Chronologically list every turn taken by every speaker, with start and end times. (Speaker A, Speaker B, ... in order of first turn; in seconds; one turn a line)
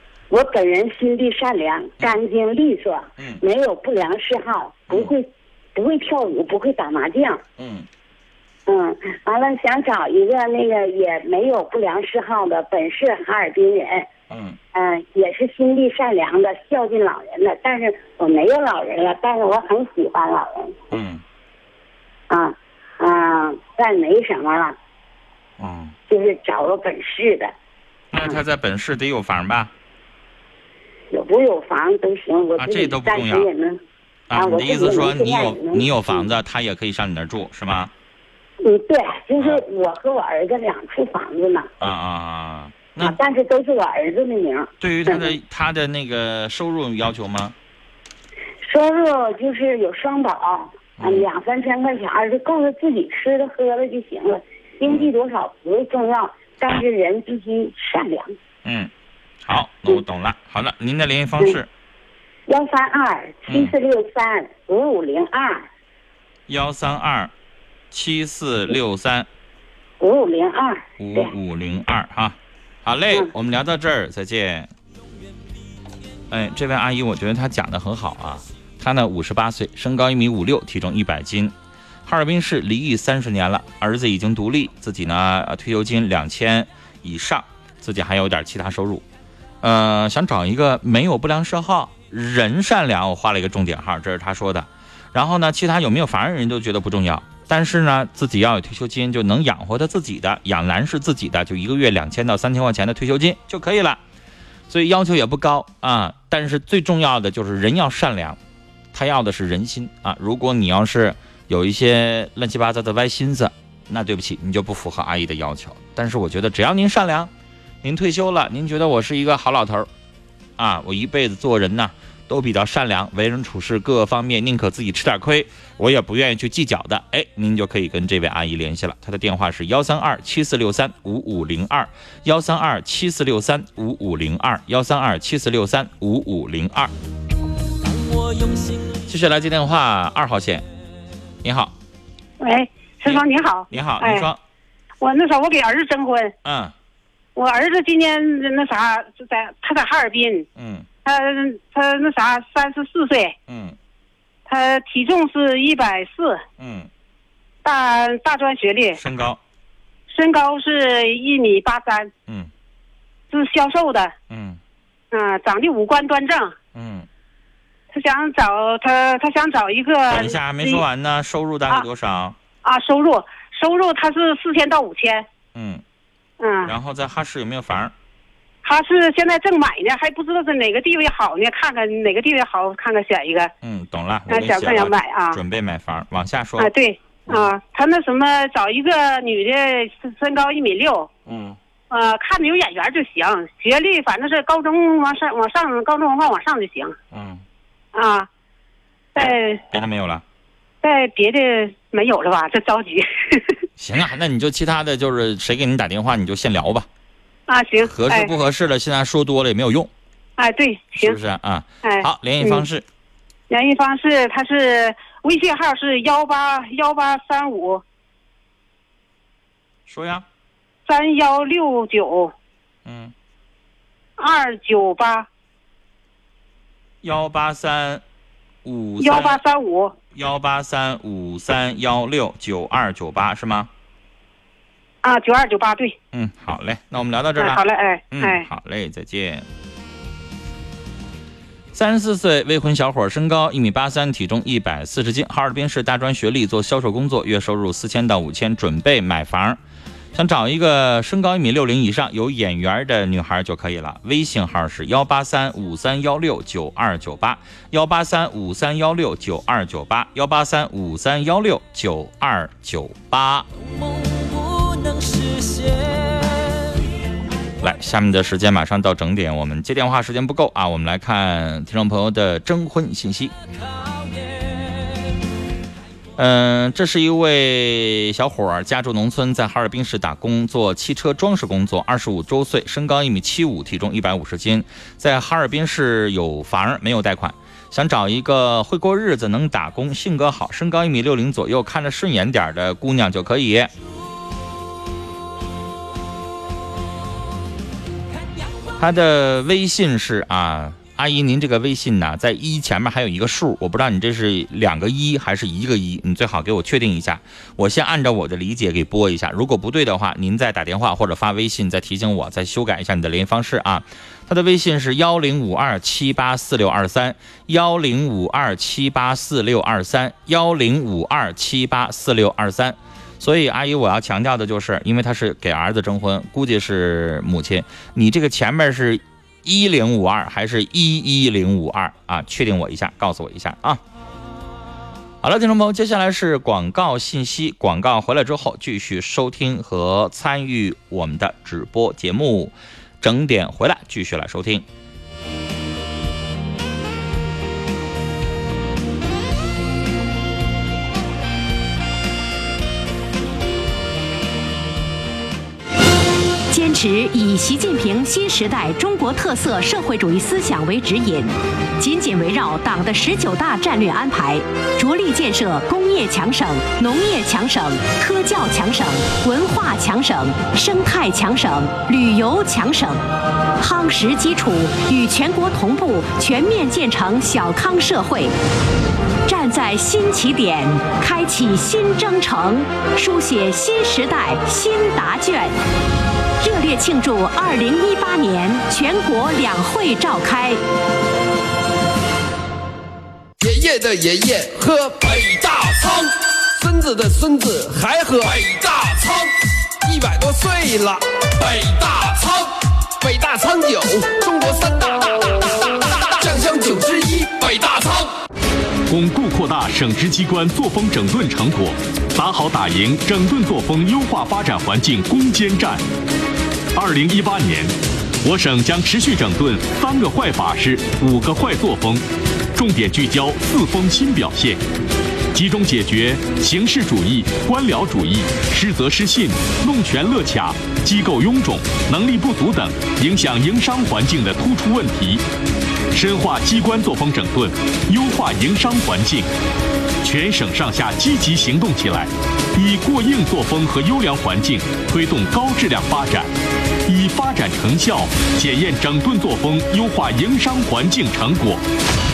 Speaker A: 0.3-7.4
Speaker B: 7.6-7.9
Speaker A: 8.7-14.1
Speaker B: 14.3-14.6
Speaker A: 14.7-20.8
Speaker B: 20.9-21.2
Speaker A: 22.3-24.8
Speaker B: 25.6-25.9
Speaker A: 26.1-27.5
Speaker B: 28.1-29.7
Speaker A: 31.1-33.8
Speaker B: 32.6-33.5
Speaker B: 34.3-37.9
Speaker A: 34.3-36.3
Speaker A: 38.6-41.7
Speaker B: 39.4-39.6
Speaker B: 41.8-43.2
Speaker A: 43.0-45.3
Speaker B: 44.8-47.5
Speaker A: 48.6-58.3
Speaker B: 51.0-51.3
Speaker B: 54.8-55.1
Speaker B: 58.6-58.9
Speaker B: 59.4-61.7
Speaker A: 62.5-65.7
Speaker B: 63.5-63.7
Speaker B: 66.5-67.3
Speaker B: 67.9-69.3
Speaker A: 70.0-71.3
Speaker B: 71.0-74.7
Speaker B: 76.3-81.5
Speaker B: 82.0-89.0
Speaker B: 89.6-104.0
Speaker B: 104.7-108.4
Speaker B: 108.9-117.3
Speaker B: 117.8-119.9
Speaker B: 120.6-136.9
Speaker B: 138.9-140.6
Speaker B: 141.4-141.7
Speaker C: 142.4-144.3
Speaker B: 143.0-144.4
Speaker C: 145.0-146.3
Speaker B: 146.4-146.7
Speaker C: 147.3-150.4
Speaker B: 150.6-150.8
Speaker C: 151.0-153.3
Speaker B: 153.5-153.8
Speaker C: 154.4-156.4
Speaker B: 156.6-156.9
Speaker C: 157.6-159.0
Speaker B: 158.9-159.4
Speaker C: 160.1-162.1
Speaker C: 163.3-164.1
Speaker B: 164.3-164.6
Speaker C: 165.1-166.5
Speaker B: 166.7-167.1
Speaker C: 167.9-170.8
Speaker B: 170.1-172.3
Speaker C: 172.6-175.2
Speaker B: 175.5-175.8
Speaker C: 176.4-176.7
Speaker B: 176.6-177.9
Speaker C: 178.6-183.5
Speaker B: 183.6-186.7
Speaker C: 184.3-185.4
Speaker C: 186.6-191.1
Speaker B: 187.3-187.5
Speaker B: 191.3-191.6
Speaker C: 191.9-196.9
Speaker B: 197.1-197.4
Speaker C: 197.9-198.3
Speaker C: 199.2-199.6
Speaker B: 199.2-200.2
Speaker C: 200.8-203.6
Speaker B: 203.8-206.9
Speaker C: 207.5-208.3
Speaker B: 207.8-209.9
Speaker C: 210.4-211.2
Speaker B: 210.9-212.8
Speaker C: 211.8-212.6
Speaker C: 213.5-217.8
Speaker B: 219.9-220.2
Speaker C: 220.8-222.3
Speaker B: 222.8-223.1
Speaker C: 224.2-225.3
Speaker B: 227.0-228.0
Speaker B: 228.6-229.4
Speaker C: 229.0-229.9
Speaker B: 230.1-233.7
Speaker C: 235.0-235.9
Speaker B: 236.1-239.4
Speaker C: 237.4-238.4
Speaker B: 241.7-249.6
Speaker B: 250.1-263.5
Speaker B: 267.6-273.3
Speaker B: 276.2-293.7
Speaker B: 298.8-333.8
Speaker B: 335.2-344.6
Speaker D: 356.5-373.0
Speaker D: 373.6-378.3
Speaker D: 379.2-385.5
Speaker D: 386.4-390.6
Speaker E: 393.4-399.3
Speaker E: 399.8-408.1
Speaker F: 408.9-415.8
Speaker F: 416.7-424.6
Speaker F: 425.3-435.2
Speaker F: 435.9-439.3
Speaker F: 440.0-446.3
Speaker F: 446.9-451.6